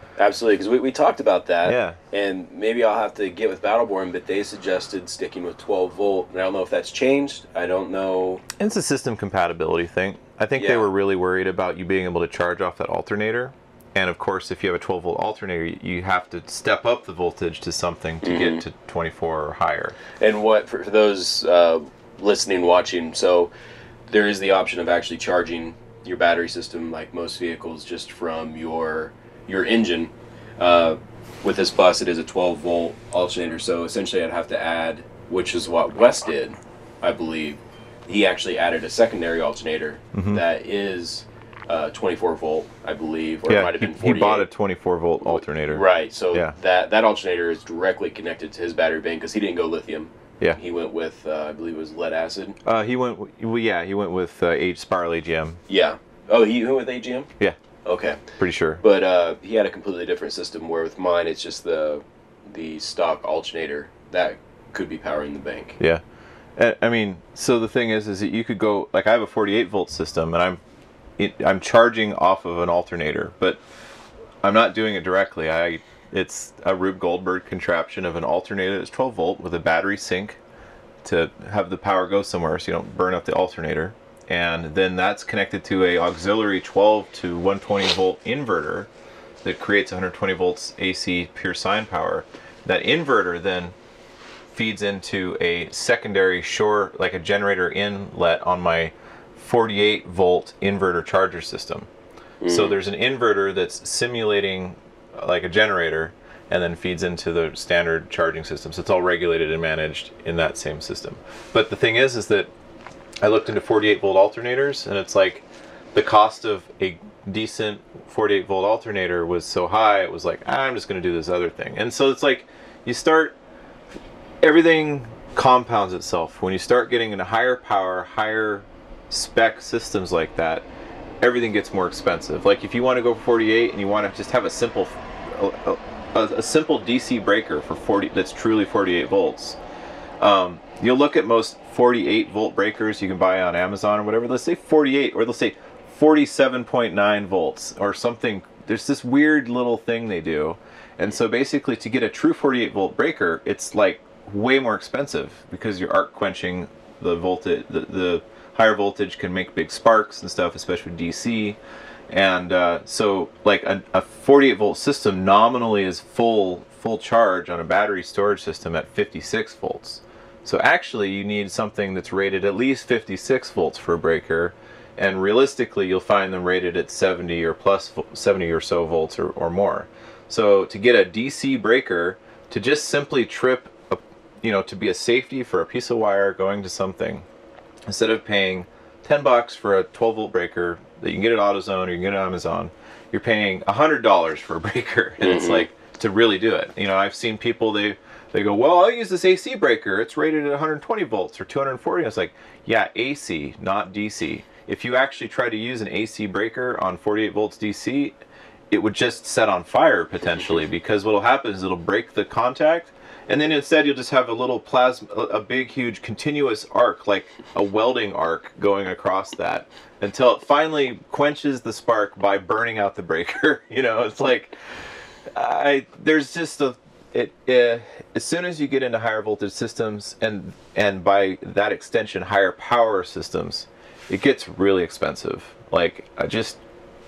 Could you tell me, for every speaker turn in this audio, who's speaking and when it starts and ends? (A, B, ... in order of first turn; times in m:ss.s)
0:00.2-0:08.4 A
0:01.6-0:02.0 B
0:08.6-0:20.0 B
0:10.6-0:10.9 A
0:18.2-0:18.6 A
0:20.2-0:23.5 A
0:24.1-0:44.5 A
0:40.1-0:40.4 B
0:43.5-0:46.5 B
0:45.2-0:52.6 A
0:52.6-0:55.6 B
0:55.7-0:57.3 A
0:57.8-0:58.2 A
0:58.4-0:58.8 B
0:58.8-1:05.8 A
1:06.6-1:10.6 B
1:11.2-1:13.6 B
1:14.4-1:20.4 B
1:21.0-1:28.9 B
1:29.4-1:33.8 B
1:34.5-1:41.9 B
1:42.4-1:42.8 A
1:42.5-1:52.5 B
1:53.2-2:03.4 B
2:04.4-2:10.7 B
2:11.2-2:19.6 B
2:20.2-2:41.6 B
2:42.1-3:07.3 B
3:07.9-3:28.2 B
3:15.2-3:15.7 A
3:28.7-3:44.5 B
3:45.3-3:56.6 B